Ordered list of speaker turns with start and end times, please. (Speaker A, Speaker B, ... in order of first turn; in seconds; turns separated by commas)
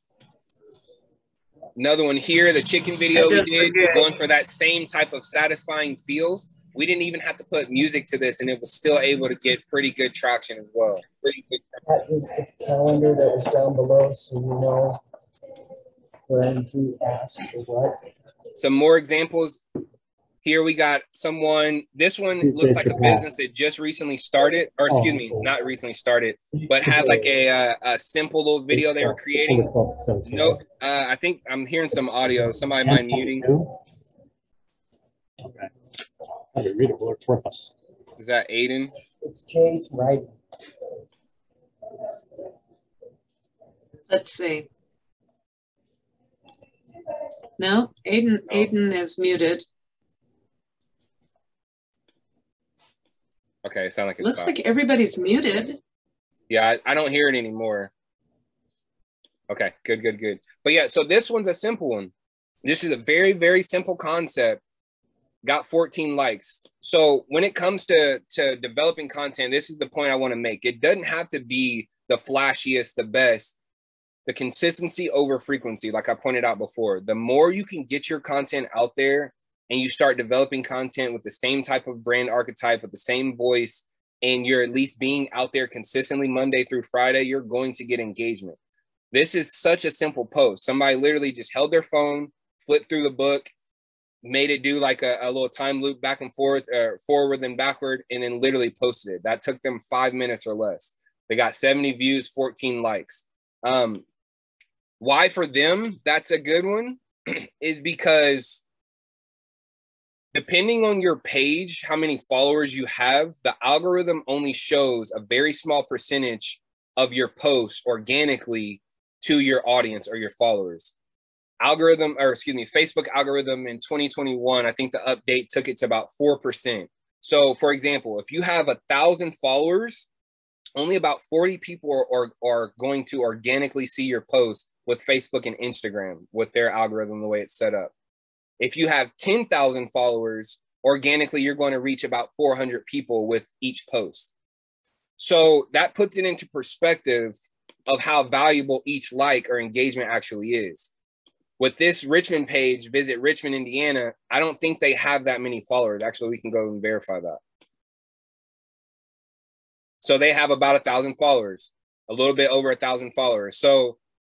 Speaker A: 1.8-11.6, Speaker B: 3.1-4.1, Speaker C: 11.8-15.0, Speaker C: 16.3-18.0, Speaker A: 18.6-19.6, Speaker A: 20.4-29.7, Speaker D: 22.4-23.3, Speaker D: 24.9-25.5, Speaker D: 26.8-27.2, Speaker D: 28.7-30.6, Speaker A: 30.2-33.5, Speaker D: 32.4-33.7, Speaker D: 35.4-35.7, Speaker D: 36.5-37.7, Speaker A: 38.2-38.9, Speaker C: 39.2-40.3, Speaker B: 44.1-44.7, Speaker B: 47.6-49.6, Speaker A: 53.6-54.5, Speaker B: 54.2-55.8, Speaker A: 56.5-57.9, Speaker A: 59.5-62.1, Speaker A: 62.6-64.6, Speaker A: 65.4-73.5, Speaker A: 74.2-88.6, Speaker A: 89.1-93.5, Speaker A: 94.2-104.0, Speaker A: 105.0-108.6, Speaker A: 110.3-120.9, Speaker A: 121.6-130.1, Speaker A: 130.8-137.9, Speaker A: 138.6-144.3, Speaker A: 145.2-147.3, Speaker A: 147.9-150.9, Speaker A: 151.6-157.4, Speaker A: 160.0-164.0